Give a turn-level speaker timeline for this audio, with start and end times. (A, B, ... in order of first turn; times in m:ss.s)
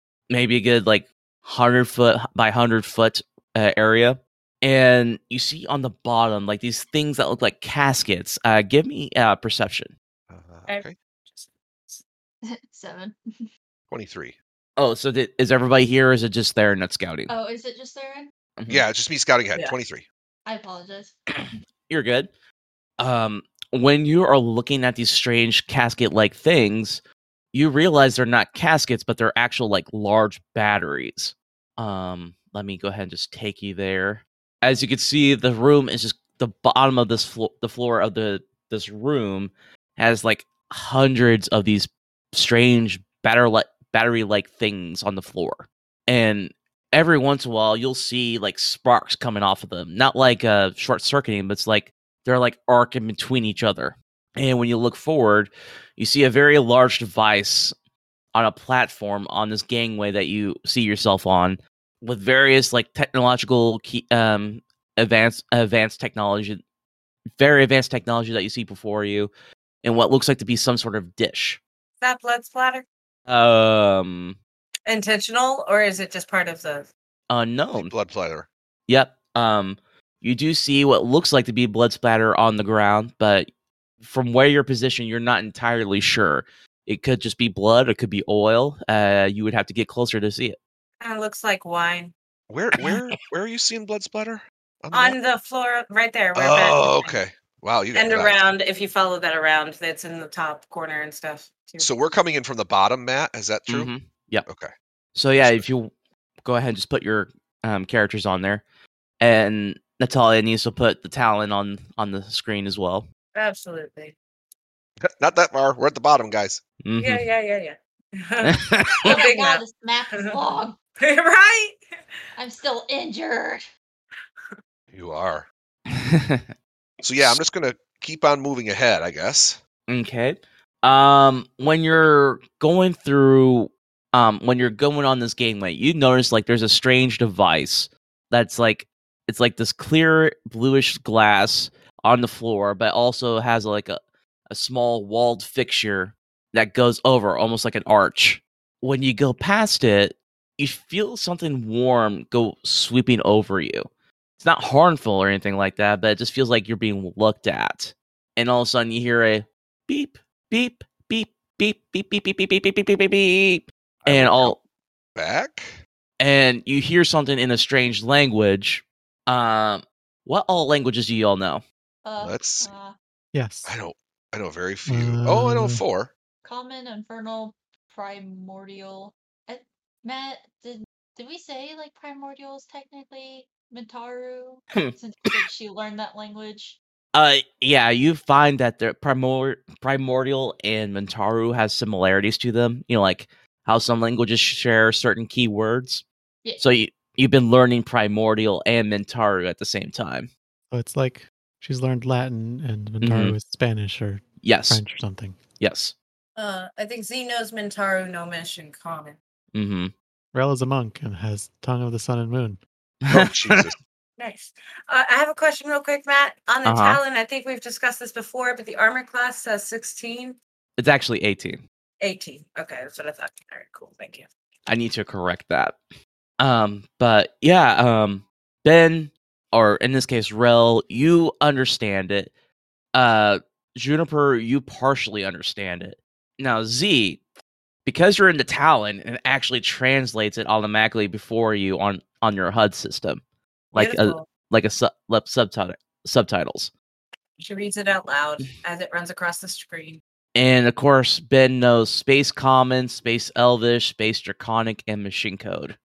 0:00.3-0:09.9 A
0:10.3-0:10.9 B
0:10.8-0:12.0 C
0:12.4-0:13.5 D
0:13.9-0:14.3 B
0:14.8-0:17.3 A
0:17.3-0:18.3 D
0:18.6-0:18.8 A
0:18.7-0:20.0 B
0:20.4-0:21.1 D
0:21.4-0:22.3 A
0:23.0-0:27.0 A
0:27.5-0:57.7 A
0:58.3-1:06.6 A
1:07.4-1:09.3 A
1:09.8-1:11.6 A
1:12.0-1:12.8 C
1:13.3-1:14.4 A
1:14.9-1:16.9 C
1:17.3-1:17.9 A
1:17.7-1:18.5 B
1:18.9-1:23.5 A
1:24.0-1:30.6 A
1:31.0-1:32.1 C
1:32.5-1:35.2 B
1:34.9-1:37.1 C
1:36.3-1:38.4 B
1:37.9-1:41.9 C
1:41.8-1:43.9 B
1:43.7-1:44.4 A
1:44.4-1:44.7 B
1:45.1-1:45.9 A
1:45.4-1:45.6 B
1:46.4-1:48.6 A
1:49.2-1:53.0 A
1:53.3-1:54.1 C
1:55.0-1:56.6 B
1:56.8-1:57.2 A
1:57.0-1:59.6 C
1:58.4-1:59.2 A
1:59.0-2:00.8 D
2:01.0-2:01.8 C
2:02.4-2:03.7 D
2:04.9-2:05.4 B
2:05.9-2:06.5 A
2:07.0-2:09.6 B
2:09.9-2:24.0 A
2:24.5-2:33.9 A
2:34.4-2:44.6 A
2:44.0-2:44.6 B
2:45.1-2:45.8 B
2:46.2-2:51.6 A
2:52.0-2:52.9 D
2:52.2-2:52.7 B
2:53.3-2:53.7 E
2:53.6-2:56.1 B
2:54.9-2:55.8 E
2:56.4-3:06.8 D
3:04.7-3:05.3 A
3:07.1-3:16.0 A
3:16.6-3:20.3 A
3:20.7-3:25.4 E
3:23.0-3:23.4 A
3:24.4-3:24.8 A
3:25.6-3:25.9 A
3:26.4-3:29.2 C
3:29.5-3:29.9 A
3:30.3-3:32.6 E
3:33.0-3:33.6 A
3:33.1-3:33.8 B
3:34.2-3:40.4 C
3:36.6-3:37.0 A
3:40.8-3:41.6 A
3:42.0-3:44.3 C
3:44.6-3:45.8 A
3:46.4-3:52.3 A
3:52.9-3:57.2 A
3:57.8-4:03.2 A
4:03.7-4:06.7 A
4:03.7-4:04.3 C
4:07.4-4:10.0 C
4:10.3-4:15.8 A